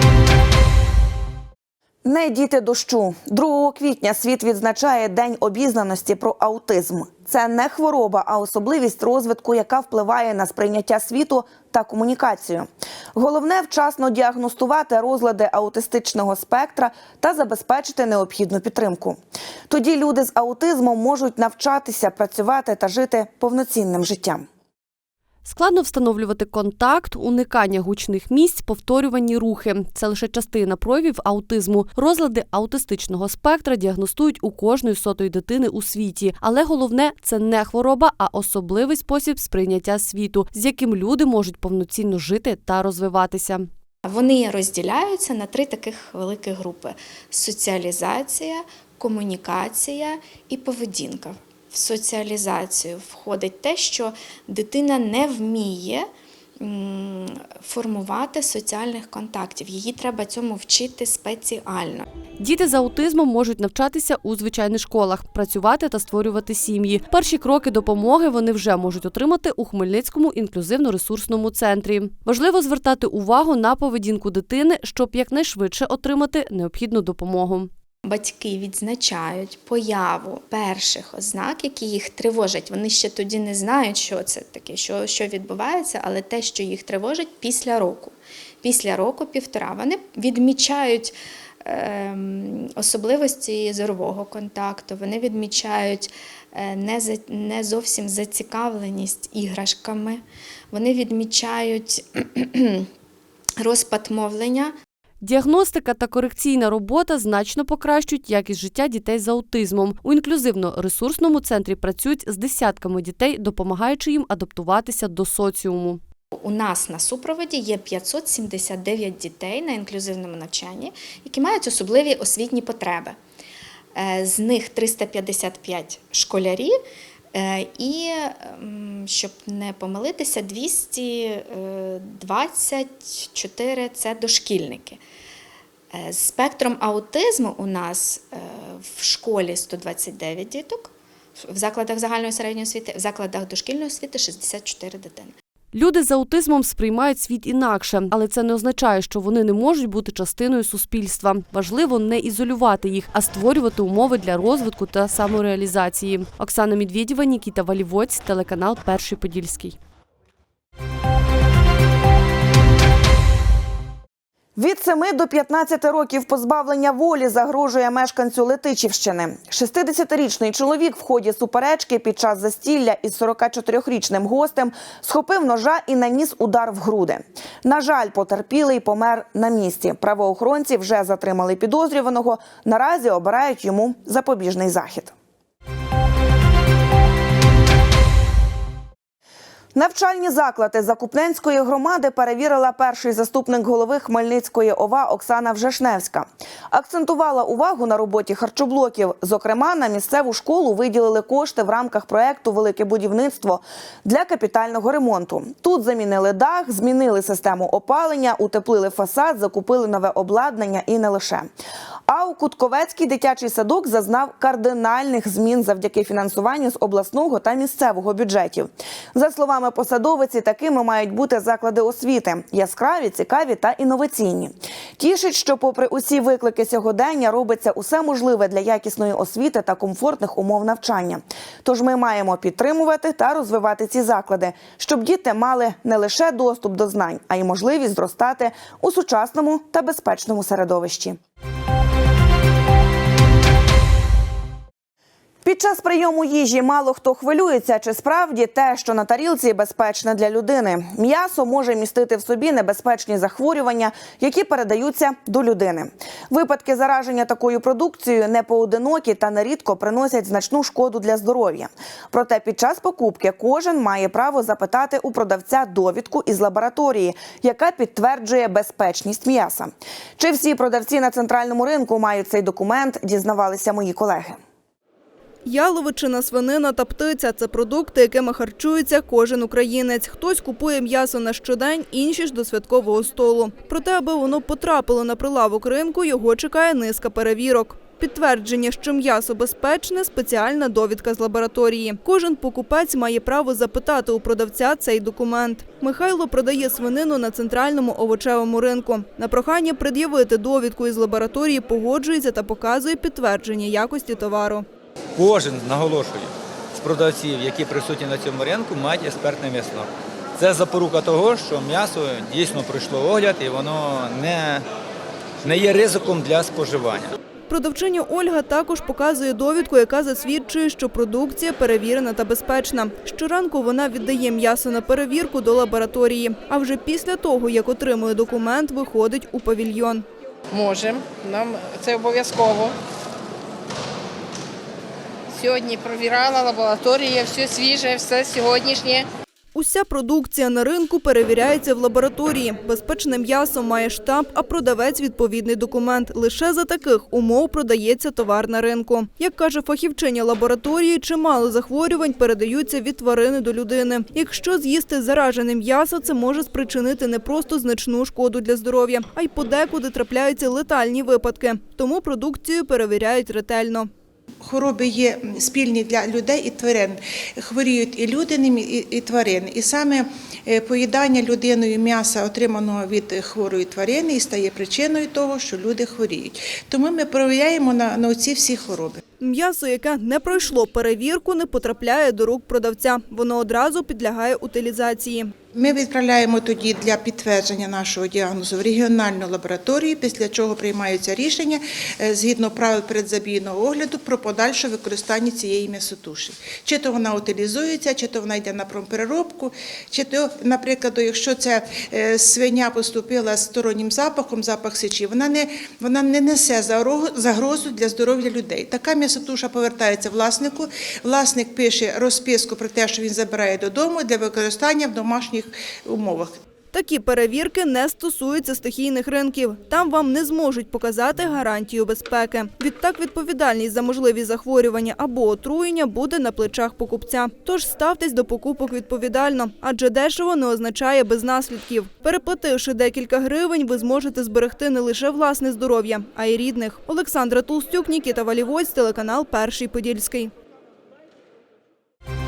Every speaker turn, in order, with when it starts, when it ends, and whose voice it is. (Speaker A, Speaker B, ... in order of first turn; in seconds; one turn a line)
Speaker A: 2.0-24.4
Speaker B: 25.4-43.7
Speaker C: 44.0-56.1
Speaker C: 56.6-62.1
Speaker B: 62.4-77.7
Speaker C: 78.0-102.9
Speaker C: 103.6-104.7
Speaker B: 105.2-116.0
Speaker C: 116.4-123.2
Speaker C: 124.0-126.8
Speaker C: 127.3-135.0
Speaker C: 135.9-145.3
Speaker B: 145.7-159.8
Speaker A: 164.6-185.1
Speaker A: 189.8-211.5
Speaker A: 212.1-241.2
Speaker A: 245.4-274.4
Speaker D: 275.4-304.7
Speaker E: 305.2-314.6
Speaker E: 315.4-317.1
Speaker D: 317.5-330.0
Speaker F: 330.5-332.7
Speaker F: 335.4-339.1
Speaker D: 339.5-363.9
Speaker G: 364.4-379.0
Speaker D: 379.2-385.3
Speaker G: 385.5-416.4
Speaker D: 416.7-440.3